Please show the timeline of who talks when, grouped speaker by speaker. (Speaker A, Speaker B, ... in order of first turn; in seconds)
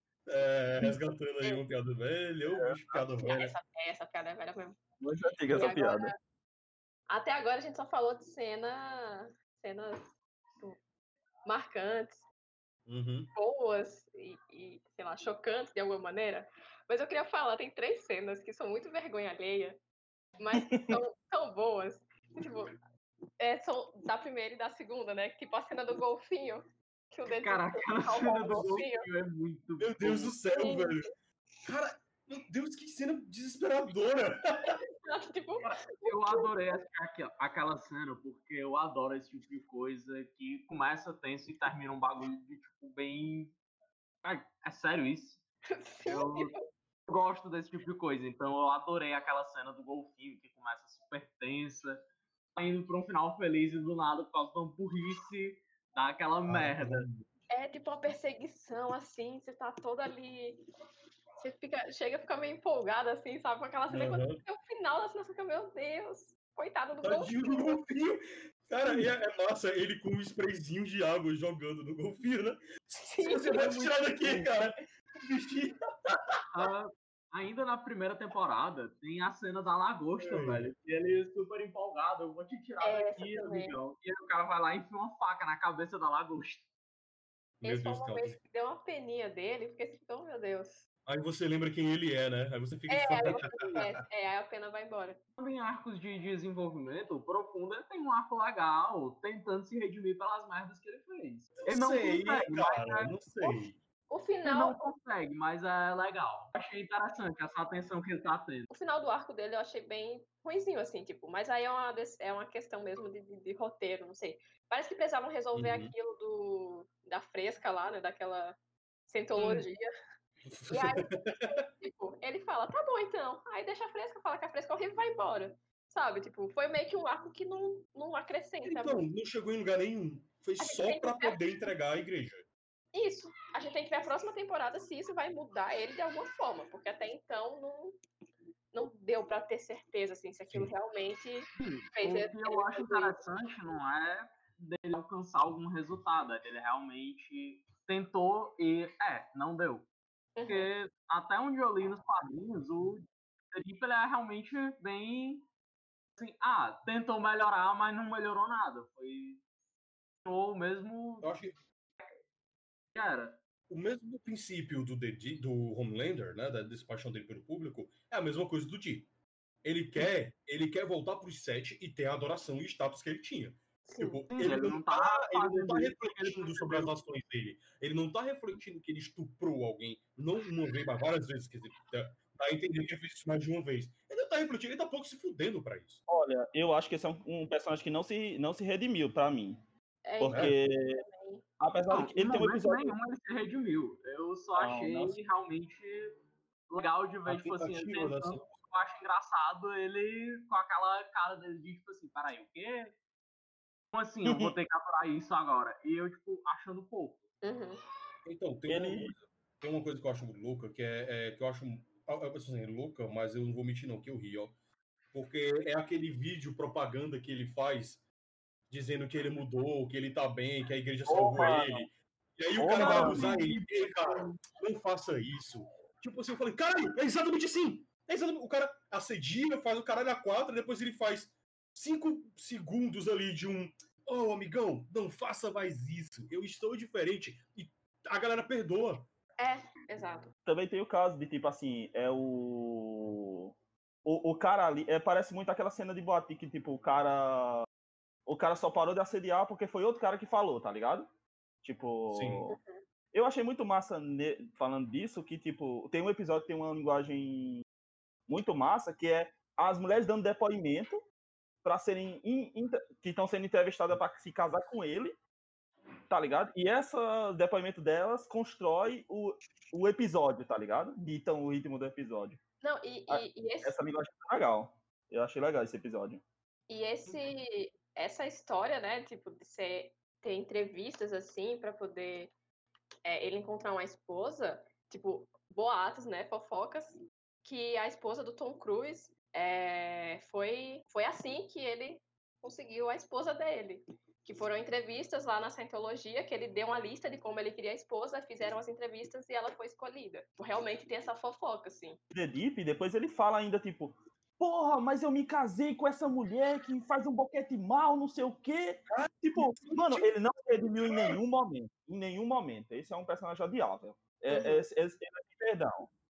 Speaker A: 0.3-3.6, 12.9-13.3, 29.8-31.1, 31.6-34.8, 56.5-57.3, 63.9-64.4, 67.0-76.4, 80.2-80.7, 87.6-88.4, 91.1-93.9, 101.6-103.8, 115.5-115.9, 120.5-121.6, 128.7-132.5, 161.2-161.6, 163.7-169.1, 169.6-186.0, 190.2-190.6, 194.6-195.2, 197.3-198.5, 204.3-204.5, 208.2-214.5, 215.1-218.0, 218.7-239.1, 252.1-252.4, 308.9-310.1, 310.8-311.2
Speaker B: 2.9-4.8, 5.5-6.2, 7.1-10.8, 11.4-12.2, 13.3-19.8, 20.4-22.7, 23.4-29.1, 30.6-31.0, 34.7-36.5, 45.7-46.7, 57.5-60.6, 61.4-67.8, 73.1-74.0, 82.8-83.8, 87.6-90.8, 92.9-95.2, 103.4-104.8, 108.7-118.6, 119.1-119.9, 120.7-129.0, 130.6-131.4, 132.9-138.0, 138.7-143.2, 150.4-150.7, 173.9-174.2, 190.1-191.4, 207.4-207.8, 239.4-240.3, 252.5-252.8, 272.6-273.8, 276.7-282.3, 283.1-302.0, 314.3-314.6
Speaker C: 5.0-6.1, 20.6-21.0, 186.1-189.6, 190.2-191.1, 191.6-193.0, 208.7-209.1, 221.1-221.9, 222.6-223.3, 240.5-243.5, 244.1-247.7, 248.3-251.1, 251.6-252.6, 253.1-257.6, 258.3-261.0, 261.6-265.1, 266.1-272.4, 273.1-276.2, 302.1-315.9
Speaker D: 27.4-30.4, 35.6-43.5, 44.2-45.4, 46.1-46.5, 47.1-52.0, 52.5-57.1, 76.5-86.7, 95.4-103.2, 104.4-108.7, 119.4-119.7, 141.6-149.9, 150.5-155.4, 156.2-159.4, 160.2-161.4, 162.9-163.4, 174.3-176.9, 191.9-203.0, 203.9-207.2, 222.8-224.4